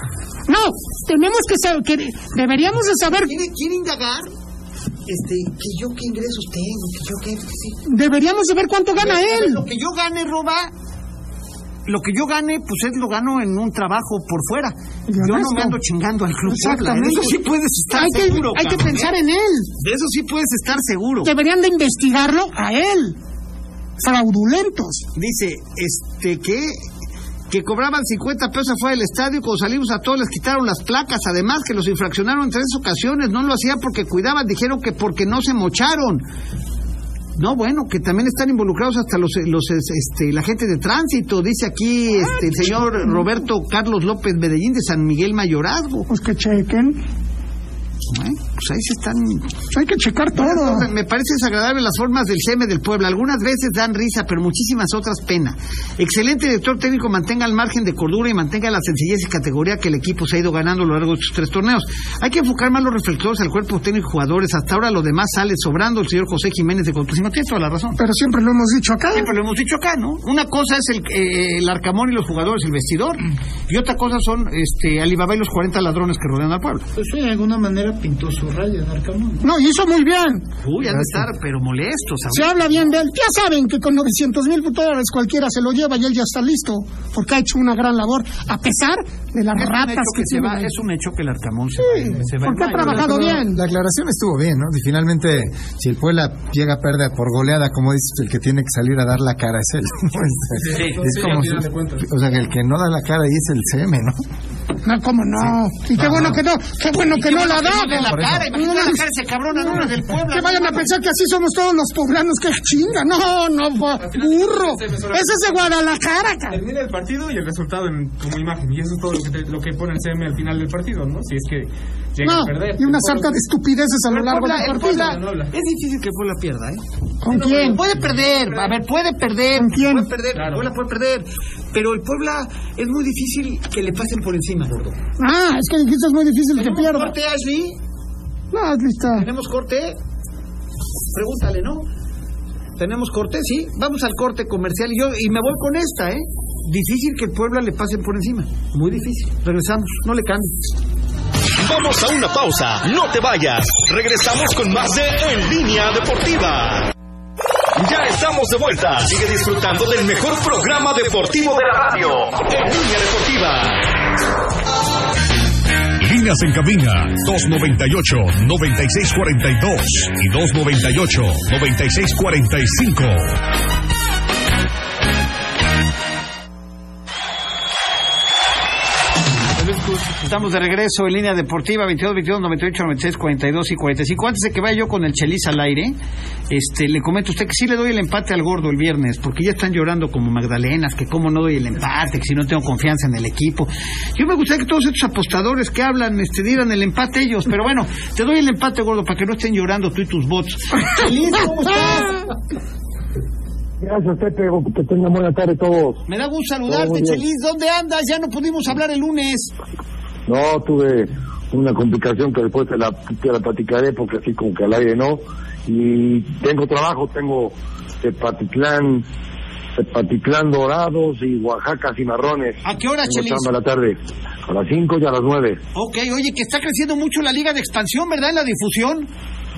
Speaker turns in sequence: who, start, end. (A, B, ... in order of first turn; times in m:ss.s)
0:00.5-0:03.3 A
0:03.2-0:04.3 B
0:05.1-0:07.8 B
0:07.9-0:09.6 A
0:09.0-0:10.7 B
0:11.8-0:19.1 B
0:15.1-0:15.8 A
0:16.4-0:17.4 A
0:17.9-0:19.7 A
0:19.8-0:21.3 B
0:21.2-0:23.2 A
0:24.0-0:25.0 A
0:25.1-0:26.8 B
0:27.5-0:36.2 B
0:37.4-0:46.1 B
0:42.6-0:43.2 A
0:46.1-0:47.0 A
0:48.1-0:49.5 B
0:49.7-0:50.9 A
0:50.4-1:08.0 B
1:08.0-1:09.3 A
1:09.1-1:16.9 B
1:17.0-1:19.4 C
1:19.4-1:20.4 A
1:20.6-1:22.9 B
1:22.3-1:30.7 A
1:29.5-1:33.4 B
1:31.8-1:33.6 A
1:32.8-1:44.2 D
1:40.6-1:42.0 E
1:44.8-1:49.0 A
1:46.0-1:46.3 D
1:46.0-1:46.4 B
1:47.0-1:50.9 B
1:48.0-1:48.5 D
1:49.6-1:56.6 A
1:54.0-1:55.7 E
1:56.5-2:03.4 E
2:02.2-2:05.2 A
2:04.1-2:15.0 B
2:04.5-2:05.5 E
2:07.2-2:07.8 A
2:07.8-2:08.7 E
2:09.5-2:10.1 A
2:10.3-2:10.6 E
2:15.2-2:17.1 A
2:16.5-2:17.8 B
2:18.5-2:19.3 A
2:19.1-2:20.0 B
2:21.1-2:21.9 B
2:22.8-2:30.6 B
2:31.6-2:36.9 F
2:37.8-2:43.9 F
2:46.0-2:53.4 G
2:59.6-3:00.1 E
3:00.2-3:06.0 B
3:06.5-3:22.2 B
3:23.8-3:26.0 H
3:26.1-3:29.5 B
3:26.7-3:27.2 H
3:30.3-3:39.0 H
3:39.8-3:45.6 H
3:42.6-3:43.5 B
3:45.7-3:49.1 B